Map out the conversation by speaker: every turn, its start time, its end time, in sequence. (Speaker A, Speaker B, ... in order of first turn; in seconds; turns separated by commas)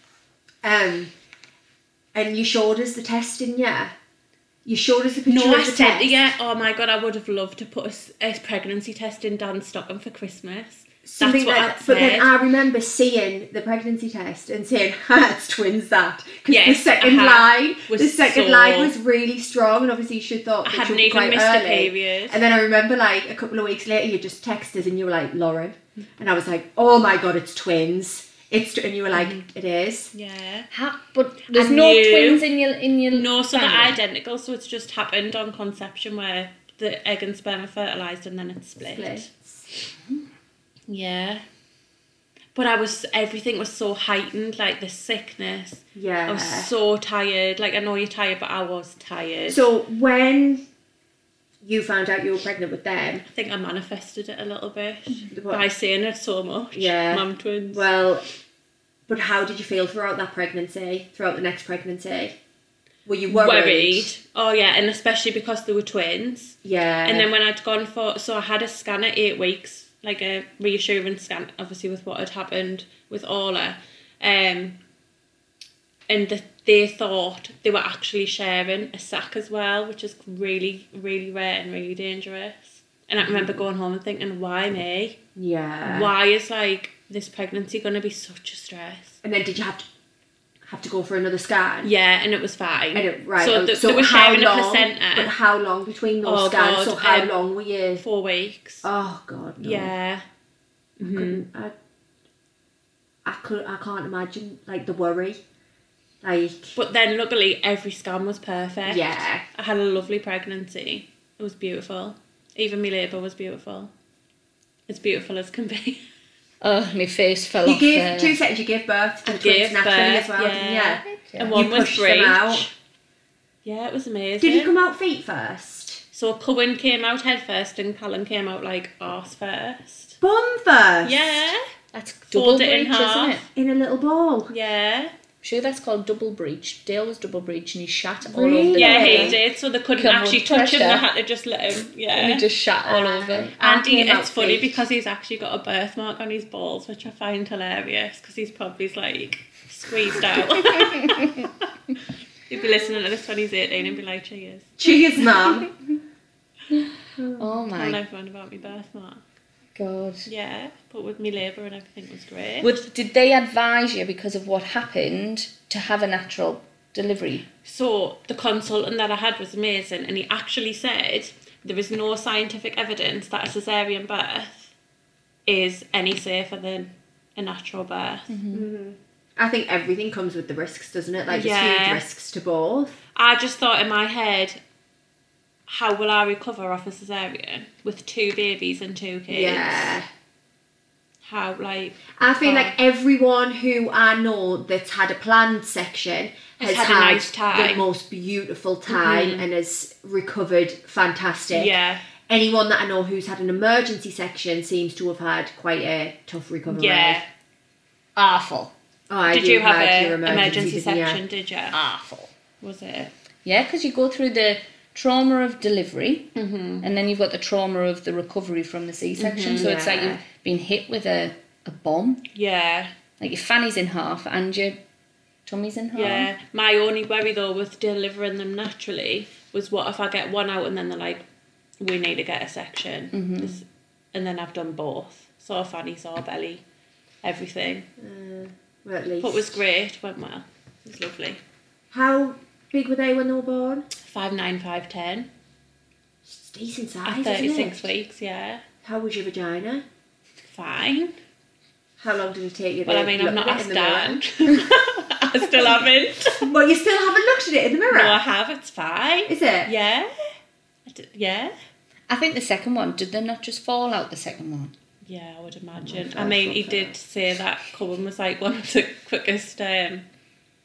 Speaker A: 0.6-1.1, Speaker A: 2.1-3.9, Speaker A: 4.7-6.2, Speaker B: 5.3-12.3, Speaker A: 11.1-30.1, Speaker B: 16.5-18.9, Speaker B: 20.6-22.4, Speaker B: 29.1-29.4, Speaker B: 30.1-30.7, Speaker C: 30.7-34.0, Speaker B: 31.5-32.5, Speaker B: 33.1-39.3, Speaker A: 38.8-39.6, Speaker B: 40.9-41.4, Speaker B: 42.5-49.7, Speaker A: 46.0-46.7, Speaker A: 49.5-50.6, Speaker A: 51.6-53.2, Speaker B: 53.3-57.9, Speaker A: 55.3-55.7, Speaker A: 56.7-58.3, Speaker A: 59.1-62.4, Speaker A: 63.1-64.1, Speaker B: 63.3-74.8, Speaker A: 66.6-67.3, Speaker B: 76.1-85.2, Speaker A: 83.2-83.6, Speaker A: 85.4-86.1, Speaker B: 85.8-89.2, Speaker A: 89.2-89.9, Speaker A: 90.6-91.9, Speaker B: 91.8-95.3, Speaker A: 92.9-98.0, Speaker B: 96.2-97.3, Speaker B: 98.0-98.9, Speaker A: 98.8-99.9, Speaker B: 99.6-100.2, Speaker B: 101.0-101.5, Speaker A: 101.0-101.7, Speaker A: 103.2-105.4, Speaker A: 106.2-106.8, Speaker B: 106.8-113.9, Speaker A: 108.9-109.4, Speaker B: 114.9-116.0, Speaker C: 116.6-118.4, Speaker A: 117.6-122.7, Speaker B: 119.2-122.7, Speaker C: 121.0-121.7, Speaker B: 123.6-124.8, Speaker A: 124.4-126.0, Speaker B: 126.1-130.2, Speaker A: 130.2-131.5, Speaker B: 131.1-131.6, Speaker C: 131.9-133.4, Speaker B: 132.3-133.5, Speaker A: 133.6-134.5, Speaker B: 134.5-135.1, Speaker C: 135.4-139.4, Speaker A: 138.3-139.4, Speaker B: 138.7-142.4, Speaker C: 140.0-141.0, Speaker C: 142.1-143.5, Speaker A: 142.9-144.8, Speaker B: 143.6-151.7, Speaker C: 150.6-151.5, Speaker B: 152.5-154.8, Speaker A: 154.8-155.7, Speaker A: 157.2-157.4, Speaker C: 157.4-158.0, Speaker B: 157.8-159.2, Speaker C: 159.8-160.3, Speaker B: 160.3-162.8, Speaker C: 162.6-167.5, Speaker B: 167.6-174.7, Speaker B: 175.5-178.3, Speaker C: 178.3-178.7, Speaker A: 178.5-183.0, Speaker B: 181.3-182.0, Speaker B: 183.2-184.6, Speaker B: 185.7-190.0, Speaker A: 189.3-190.1, Speaker B: 191.2-192.8, Speaker A: 192.2-201.8, Speaker B: 196.6-197.8, Speaker B: 198.9-199.5, Speaker B: 201.5-202.1, Speaker A: 202.3-207.2, Speaker B: 206.7-207.2, Speaker C: 208.2-208.7, Speaker A: 209.1-211.2, Speaker B: 209.3-211.8, Speaker C: 211.7-212.3, Speaker B: 212.6-213.1, Speaker C: 213.4-216.3, Speaker B: 216.3-216.9, Speaker C: 216.8-222.3, Speaker B: 219.2-219.7, Speaker A: 219.5-220.2, Speaker B: 222.3-222.9, Speaker C: 223.2-224.8, Speaker C: 225.5-226.3, Speaker B: 225.9-231.2, Speaker B: 231.8-236.6, Speaker C: 233.1-233.6, Speaker B: 237.2-237.9, Speaker A: 238.0-239.6, Speaker B: 239.2-241.4, Speaker A: 241.9-243.9, Speaker B: 244.0-245.3, Speaker A: 246.2-247.9, Speaker B: 247.1-248.6, Speaker A: 248.8-249.8, Speaker B: 250.4-251.2, Speaker A: 252.0-254.2, Speaker B: 252.9-256.5, Speaker A: 256.4-258.2, Speaker B: 257.9-260.3, Speaker A: 259.3-259.7, Speaker B: 260.9-261.6, Speaker C: 262.1-264.7, Speaker B: 265.0-270.1, Speaker A: 265.8-266.9